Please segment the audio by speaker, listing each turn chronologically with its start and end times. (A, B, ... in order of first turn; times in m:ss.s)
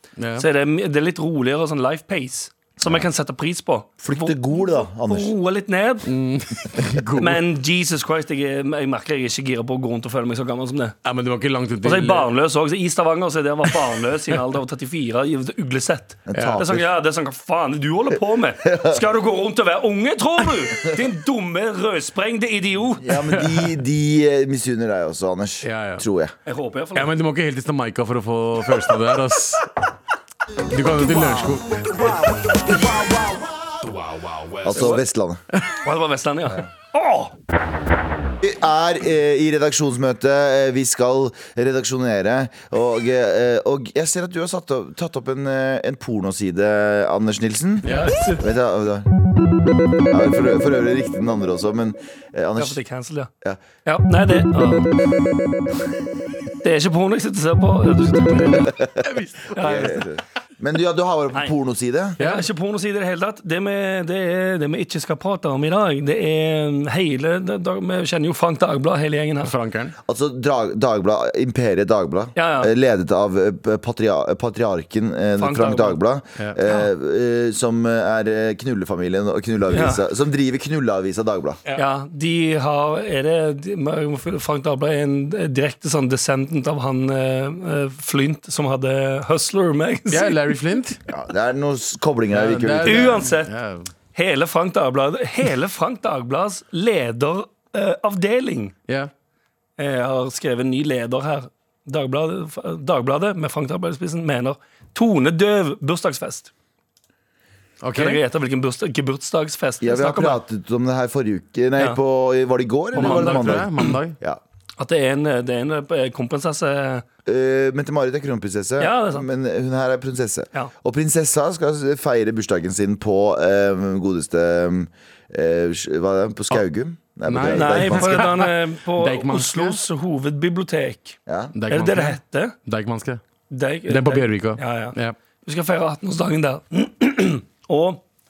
0:00.2-0:00.4 A
0:00.4-0:06.1 B
0:04.0-0:05.3 C
0:06.1-0:07.4 A
0:07.2-0:11.0 B
0:11.0-0:12.3 A
0:11.8-0:23.1 B
0:16.3-0:16.9 C
0:16.3-0:16.6 A
0:18.6-0:19.0 C
0:23.0-0:26.3 C
0:23.3-0:23.7 A
0:25.6-0:26.0 A
0:26.5-0:27.1 B
0:27.0-0:29.7 A
0:30.7-0:31.9 A
0:30.9-0:33.5 C
0:34.6-0:35.4 C
0:34.7-0:35.0 B
0:35.8-0:37.3 B
0:38.4-0:47.9 C
0:47.8-0:48.2 A
0:47.8-0:48.4 B
0:48.4-0:49.1 C
0:50.1-0:52.8 C
0:52.6-0:53.3 B
0:53.8-0:54.9 B
0:56.6-0:58.7 B
0:59.0-0:59.9 A
0:59.5-1:00.0 B
0:59.6-1:02.2 C
1:02.2-1:09.5 B
1:02.2-1:02.5 A
1:09.4-1:10.0 A
1:10.1-1:21.6 C
1:12.4-1:12.7 B
1:15.4-1:16.0 B
1:19.7-1:20.0 B
1:21.8-1:30.4 B
1:30.1-1:31.0 A
1:31.1-1:33.2 C
1:32.3-1:33.9 A
1:32.8-1:33.5 B
1:34.1-1:38.7 B
1:39.8-1:46.5 B
1:47.8-1:48.2 A
1:47.9-1:50.4 B
1:49.8-1:54.4 C
1:52.9-1:53.9 B
1:53.0-1:54.2 A
1:54.8-1:57.0 B
1:57.3-2:08.3 C
1:58.8-1:59.3 B
2:07.3-2:09.8 A
2:07.5-2:11.2 B
2:11.3-2:11.6 C
2:11.5-2:13.2 A
2:11.7-2:12.6 B
2:13.5-2:18.0 B
2:13.9-2:15.2 A